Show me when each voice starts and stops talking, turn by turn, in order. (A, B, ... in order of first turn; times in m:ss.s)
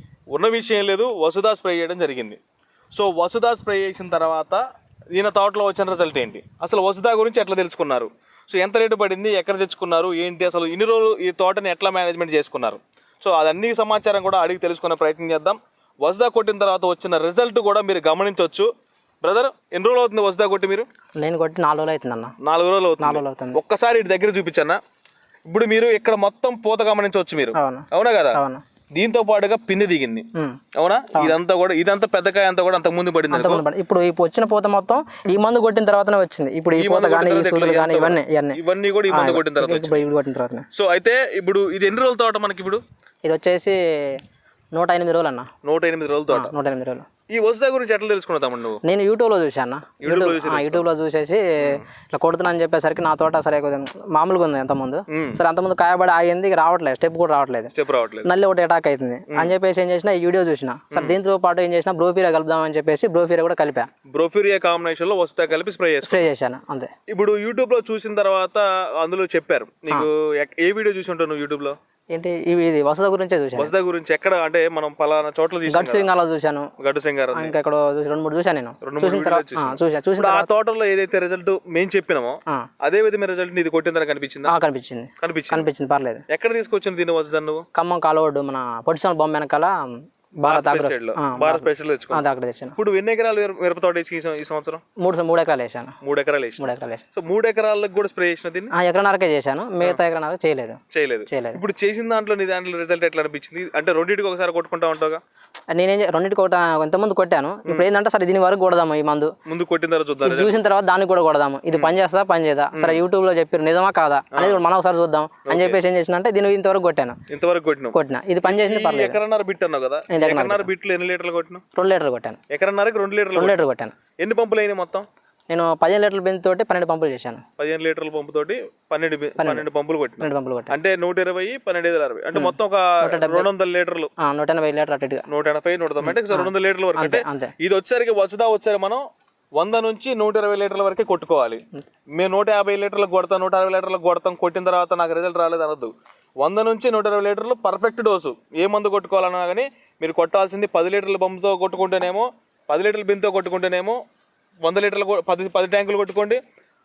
0:00.3-0:02.4 A
0:02.9-0:04.6 A
0:05.1-0:18.7 A
0:19.2-0:20.9 A
0:21.2-0:22.3 B
0:22.4-0:24.8 A
0:23.0-0:23.6 B
0:25.5-0:28.4 A
0:27.6-0:28.6 B
0:28.9-0:33.6 A
0:33.3-0:40.6 B
0:36.8-0:40.0 A
0:40.7-0:42.8 A
0:43.2-0:44.2 B
0:44.7-0:45.5 B
0:45.6-0:46.5 A
0:46.3-0:47.1 B
0:47.3-0:48.8 A
0:48.8-0:57.7 B
0:50.0-0:50.9 A
0:51.6-0:51.8 A
0:55.1-0:55.4 A
0:57.7-0:58.3 A
0:58.2-1:03.9 B
1:04.1-1:06.3 A
1:06.0-1:06.9 B
1:07.1-1:11.7 A
1:12.1-1:13.7 B
1:13.6-1:16.1 A
1:15.7-1:16.7 B
1:16.8-1:17.6 A
1:17.3-1:20.5 B
1:18.8-1:24.5 A
1:24.5-1:26.2 B
1:25.2-1:25.7 A
1:26.3-1:27.6 A
1:27.7-1:32.8 B
1:30.4-1:32.2 A
1:32.8-1:34.8 A
1:35.0-1:35.9 B
1:36.0-1:38.7 A
1:36.6-1:37.0 B
1:38.7-1:41.6 B
1:40.9-1:45.2 A
1:45.7-1:49.3 B
1:49.4-1:50.6 A
1:50.2-1:57.2 B
1:52.7-1:53.0 A
1:54.3-1:54.6 A
1:55.4-1:55.8 A
1:57.3-2:01.6 A
1:57.9-1:59.2 B
2:00.1-2:00.7 B
2:01.8-2:02.4 B
2:02.5-2:03.6 A
2:03.4-2:03.9 B
2:04.2-2:05.0 A
2:05.5-2:07.4 B
2:07.6-2:14.1 A
2:09.4-2:09.6 B
2:10.2-2:10.7 B
2:12.3-2:13.5 B
2:14.2-2:15.2 B
2:15.3-2:19.0 A
2:16.0-2:17.5 B
2:19.6-2:21.6 A
2:22.2-2:34.0 A
2:34.6-2:36.4 A